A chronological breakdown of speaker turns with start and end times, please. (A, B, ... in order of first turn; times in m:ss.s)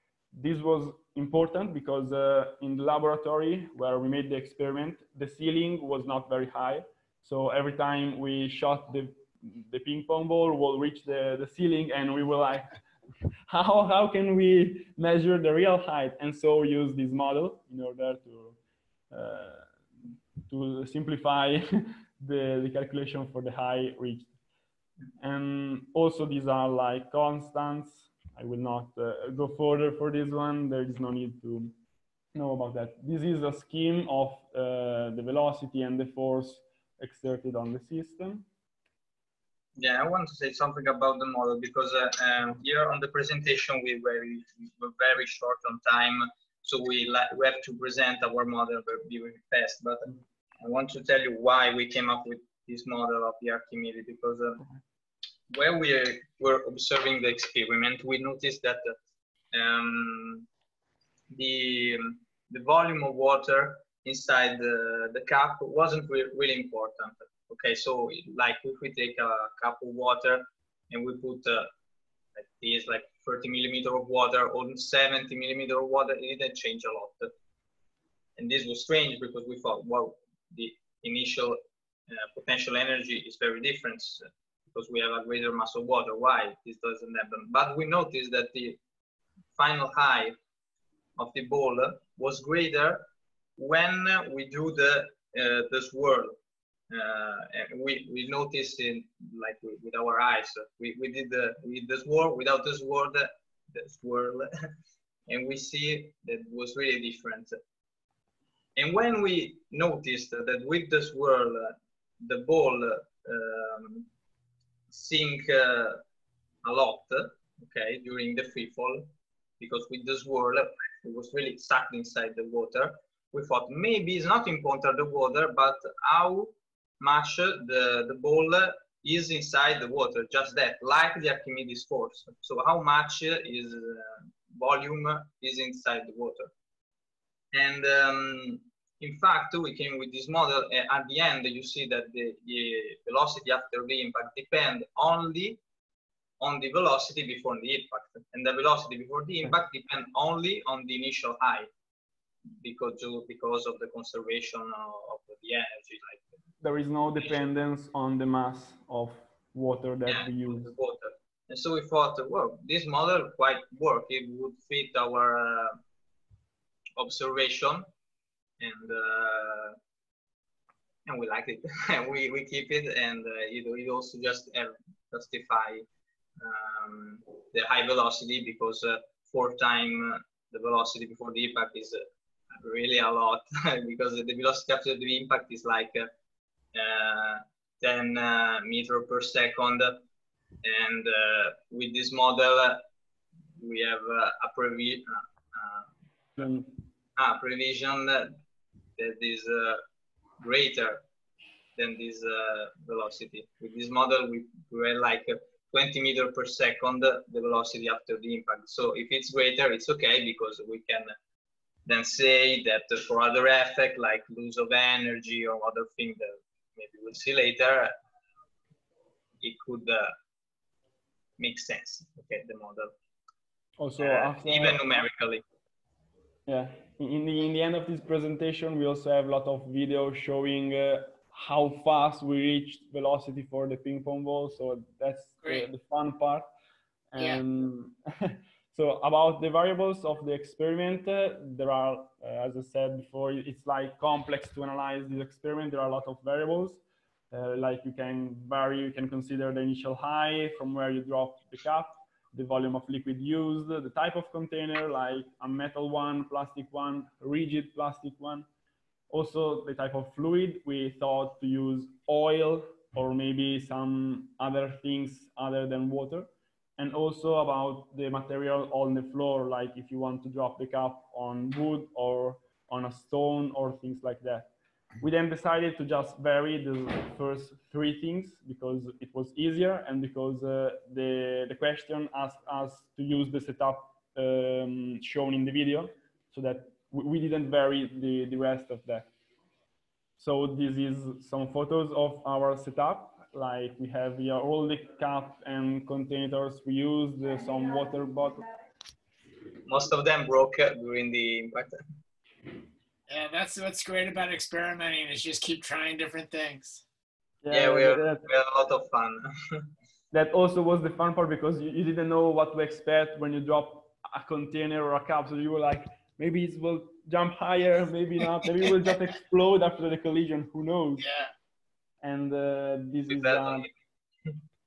0:00.3-0:12.8 A
0:13.5-0:18.6 A
0:19.1-0:19.7 A
0:20.5-0:24.3 A
0:25.2-0:31.8 A
0:32.3-0:38.5 A
0:39.8-0:54.6 B
0:55.5-0:59.0 B
0:59.5-1:00.4 B
1:01.3-1:11.7 B
1:12.4-1:17.3 B
1:18.4-1:21.6 B
1:22.1-1:28.8 B
1:29.6-1:30.4 B
1:31.2-1:36.4 B
1:36.9-1:44.5 B
1:45.3-1:47.6 B
1:48.8-1:54.1 B
1:54.9-1:56.0 B
1:56.6-1:59.1 B
1:59.6-2:16.5 B
2:17.5-2:25.6 B
2:26.4-2:31.7 B
2:32.6-2:36.2 B
2:36.6-2:40.7 A
2:40.0-2:45.8 B
2:47.0-2:47.9 B
2:48.6-2:49.8 B
2:51.0-2:55.9 B
2:56.4-3:02.0 B
3:02.5-3:06.1 B
3:06.7-3:10.0 B
3:10.6-3:12.8 B
3:13.6-3:15.9 B
3:16.4-3:16.7 A
3:17.2-3:18.4 B
3:19.0-3:19.8 B
3:20.4-3:21.0 B
3:21.8-3:31.1 B
3:31.9-3:37.9 B
3:39.4-3:40.1 B
3:41.4-3:42.9 B
3:43.8-3:44.8 A
3:44.0-3:45.4 B
3:46.5-3:56.5 A
3:57.1-4:18.4 A
4:19.1-4:49.1 A
4:50.2-4:58.4 A
4:59.6-5:01.8 B
5:03.1-5:06.8 C
5:07.4-5:08.2 A
5:07.5-5:09.6 B
5:10.1-5:21.0 A
5:21.0-5:21.3 C
5:22.0-5:23.7 A
5:23.1-5:23.7 B